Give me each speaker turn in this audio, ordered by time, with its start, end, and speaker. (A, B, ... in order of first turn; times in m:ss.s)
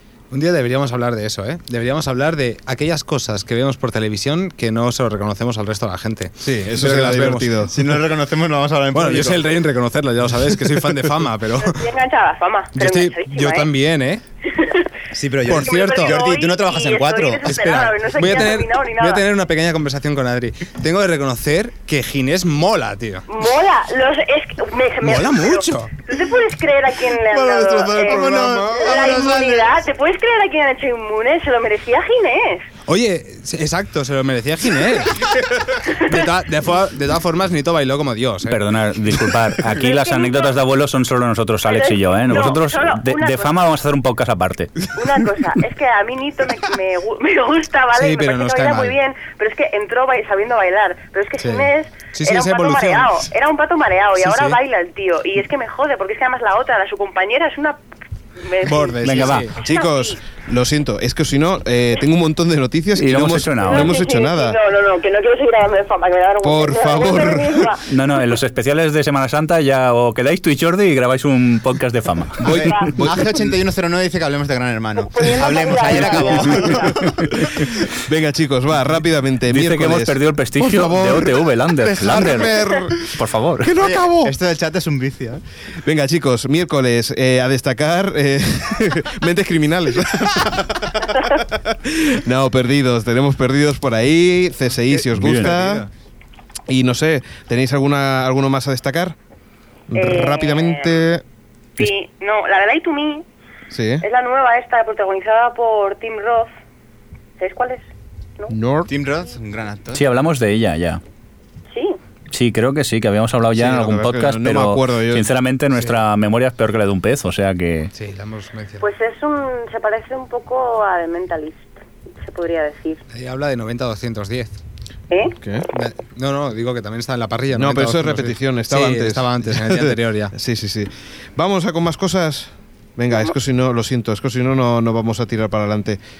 0:00.3-0:07.6 A
0:06.4-0:07.8 B
0:07.7-0:09.6 C
0:08.9-0:11.9 A
0:10.7-0:11.2 B
0:11.6-0:13.7 D
0:12.7-0:14.2 A
0:14.4-0:14.9 D
0:15.1-0:17.5 C
0:15.4-0:16.2 A
0:15.5-0:19.2 D
0:17.4-0:23.2 A
0:23.3-0:32.6 D
0:25.0-0:25.9 A
0:27.2-0:29.6 B
0:27.8-0:29.4 C
0:32.8-0:35.3 A
0:35.9-0:36.1 D
0:35.9-0:38.6 A
0:38.5-0:44.9 E
0:39.7-0:40.6 D
0:41.7-0:43.6 D
0:44.9-0:57.8 D
0:47.9-0:49.0 A
0:51.4-0:53.3 A
0:54.2-0:54.6 A
0:58.4-1:00.2 D
0:58.6-0:59.5 A
0:59.0-0:59.5 E
0:59.6-1:04.6 B
1:03.0-1:04.0 E
1:03.6-1:07.9 D
1:06.4-1:07.8 B
1:07.9-1:12.4 E
1:12.4-1:13.5 B
1:12.4-1:17.1 C
1:12.6-1:12.9 D
1:15.0-1:17.0 D
1:15.9-1:21.3 B
1:19.5-1:22.5 E
1:21.8-1:22.8 C
1:22.1-1:23.1 B
1:23.1-1:23.7 E
1:23.6-1:24.3 B
1:23.7-1:25.4 C
1:25.8-1:35.9 B
1:35.1-1:35.6 E
1:36.7-1:39.1 B
1:39.9-1:41.2 B
1:39.9-1:40.9 D
1:41.8-1:43.2 D
1:43.7-1:44.0 B
1:44.0-1:46.5 D
1:47.4-1:47.8 D
1:48.5-1:48.9 B
1:48.9-1:50.0 C
1:49.9-1:51.0 E
1:51.7-1:52.0 D
1:52.3-1:57.9 E
1:53.5-1:55.3 B
1:57.9-1:58.8 A
1:58.8-2:01.7 D
2:02.2-2:03.0 D
2:03.1-2:04.6 A
2:05.1-2:05.4 D
2:05.4-2:05.7 B
2:05.7-2:10.3 A
2:07.5-2:16.0 B